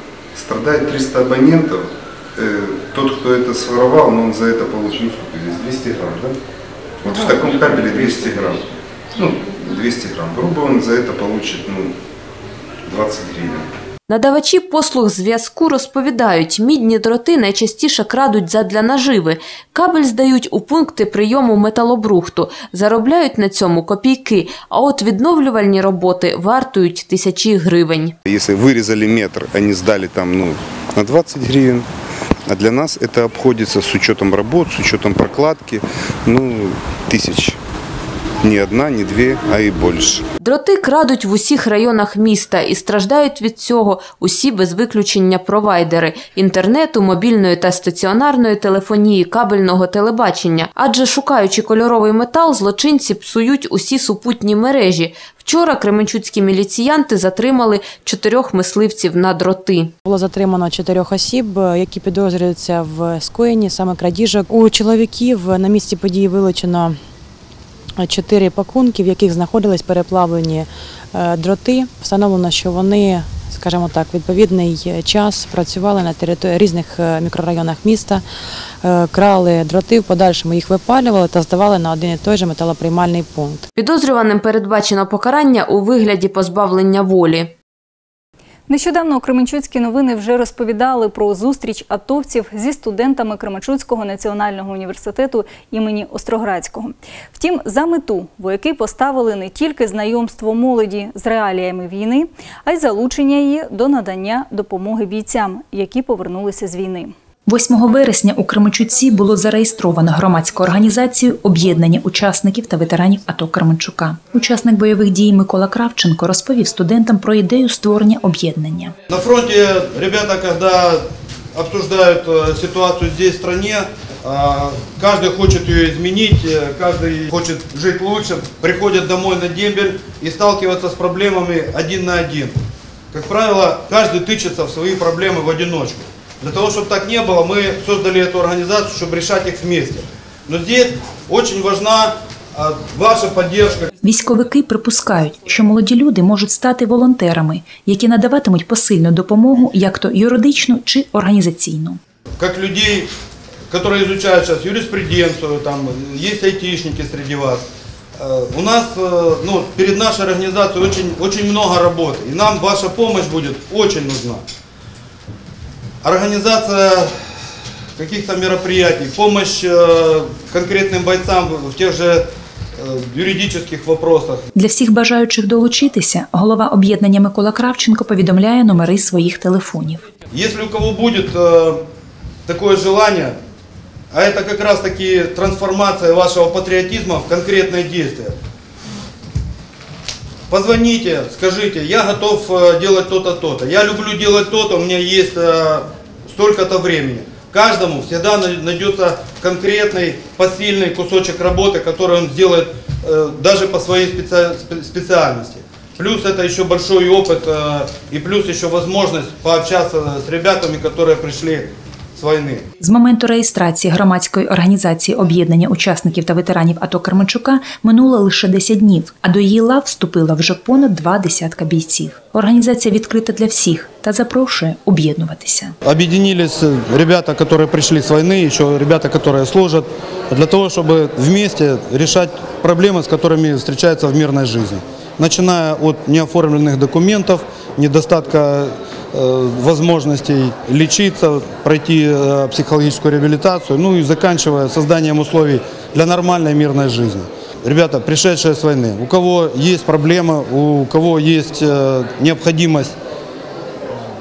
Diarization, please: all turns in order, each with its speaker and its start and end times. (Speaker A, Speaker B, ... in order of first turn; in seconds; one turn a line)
Speaker A: 0.3-6.4
Speaker A: 7.0-11.9
Speaker A: 12.9-13.7
Speaker B: 14.1-28.1
Speaker A: 28.3-31.9
Speaker A: 32.5-37.6
Speaker A: 38.4-40.2
Speaker B: 40.4-59.9
Speaker C: 60.0-67.0
Speaker C: 68.0-78.3
Speaker C: 78.8-83.6
Speaker B: 83.8-87.5
Speaker D: 88.7-107.1
Speaker E: 107.5-118.9
Speaker F: 119.1-121.0
Speaker F: 121.5-132.5
Speaker F: 133.1-143.9
Speaker E: 144.0-152.0
Speaker F: 152.4-153.1
Speaker F: 153.7-157.7
Speaker F: 158.2-164.4
Speaker F: 166.0-167.1
Speaker F: 168.0-172.3
Speaker F: 172.8-174.5
Speaker E: 174.6-180.0
Speaker F: 180.3-181.8
Speaker F: 182.5-183.4
Speaker F: 184.1-188.4
Speaker F: 190.5-212.7
Speaker E: 212.8-225.7
Speaker F: 225.9-252.9